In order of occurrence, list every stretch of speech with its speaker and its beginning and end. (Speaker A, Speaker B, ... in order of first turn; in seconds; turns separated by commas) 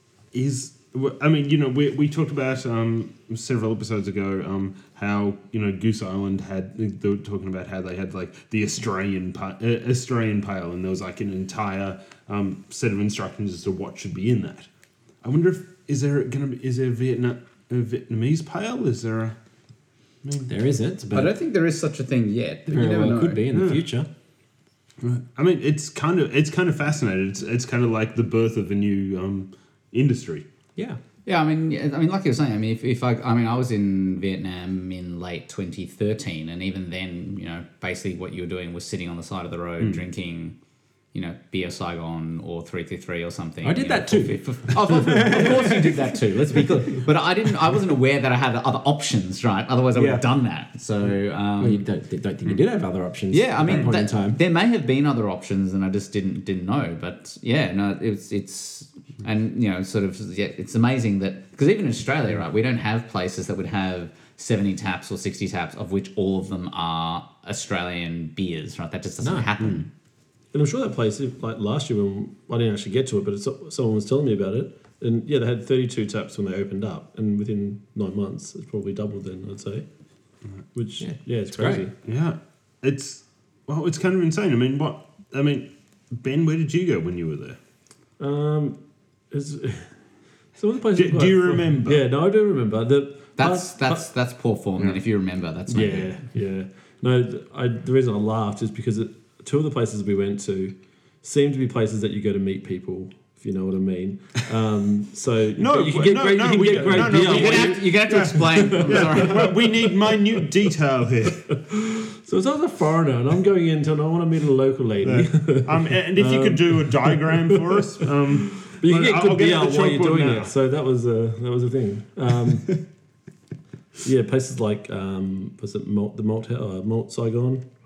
Speaker A: 0.3-14.7, Speaker A: 15.2-19.4, Speaker A: 20.2-20.5, Speaker B: 20.5-21.4, Speaker C: 21.1-23.4, Speaker B: 22.7-24.1, Speaker A: 23.5-23.8, Speaker A: 25.0-30.4, Speaker C: 31.3-40.6, Speaker C: 41.1-51.8, Speaker B: 43.6-46.0, Speaker B: 50.0-50.3, Speaker B: 51.6-54.4, Speaker C: 53.3-69.9, Speaker B: 69.2-69.5, Speaker D: 70.5-79.8, Speaker D: 80.7-82.0, Speaker B: 81.0-81.9, Speaker A: 82.0-87.6, Speaker D: 88.2-88.8, Speaker D: 89.3-90.0, Speaker D: 90.5-94.0, Speaker A: 91.0-92.0, Speaker C: 93.4-96.2, Speaker D: 95.7-109.5, Speaker A: 105.6-111.5, Speaker C: 107.0-109.5, Speaker D: 111.6-117.8, Speaker A: 115.0-120.5, Speaker D: 118.6-122.8, Speaker D: 124.0-127.7